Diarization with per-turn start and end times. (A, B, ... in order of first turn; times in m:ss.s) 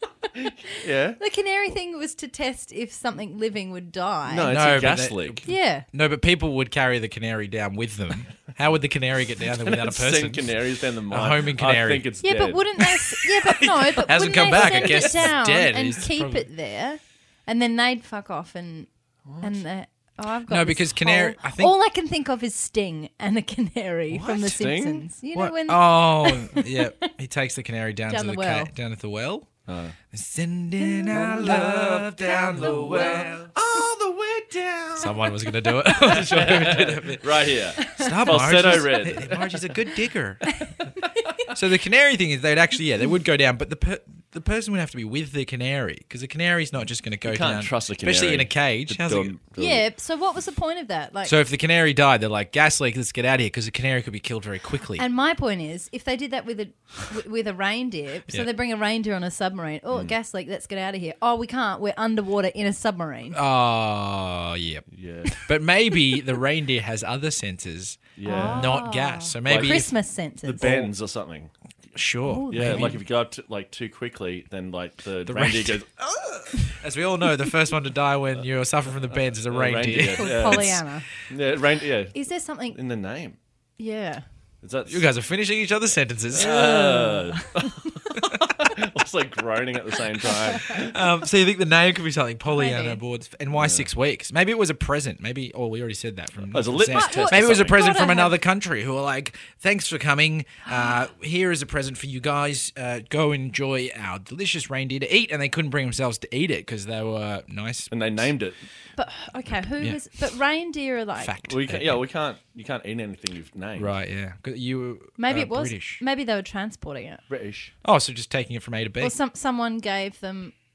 0:00.3-0:04.6 A
0:00.8-0:01.2 B
0:04.2-0:05.4 B
0:04.5-0:10.5 C
0:05.4-0:05.9 A
0:09.6-0:13.3 B
0:11.1-0:12.1 C
0:12.2-0:27.0 A
0:14.0-0:16.4 C
0:14.1-0:15.2 B
0:19.2-0:19.6 B
0:20.5-0:21.7 C
0:24.1-0:24.6 C
0:24.5-0:25.1 B
0:25.3-0:29.5 C
0:28.1-0:28.7 A
0:29.7-0:30.0 B
0:30.1-0:33.5 C
0:31.1-0:39.5 B
0:32.5-0:33.3 A
0:35.0-0:40.4 C
0:37.8-0:39.3 A
0:40.4-0:41.5 A
0:41.5-0:49.3 C
0:47.2-0:49.8 B
0:49.5-0:51.4 A
0:51.2-0:55.0 C
0:55.0-1:03.4 A
1:03.3-1:09.9 C
1:04.9-1:05.4 B
1:08.2-1:08.8 B
1:08.2-1:10.9 A
1:09.4-1:09.9 B
1:10.4-1:11.5 B
1:11.9-1:13.0 C
1:12.2-1:13.0 A
1:12.5-1:16.4 B
1:15.3-1:15.8 C
1:16.6-1:20.8 C
1:19.5-1:23.4 B
1:20.2-1:21.1 A
1:22.1-1:22.8 A
1:23.8-1:24.2 A
1:24.6-1:25.1 B
1:24.9-1:27.0 C
1:26.3-1:31.0 B
1:26.4-1:28.1 A
1:30.6-1:48.2 C
1:32.4-1:33.0 A
1:33.5-1:33.9 B
1:36.5-1:37.8 B
1:36.9-1:38.4 A
1:40.6-1:41.0 A
1:47.9-1:48.6 B
1:49.0-1:51.4 A
1:49.6-1:50.0 C
1:51.2-1:52.0 C
1:51.4-1:54.0 B
1:53.8-1:56.0 C
1:55.2-1:57.2 A
1:57.3-1:57.7 B
1:57.8-1:59.1 C
1:59.0-2:00.5 A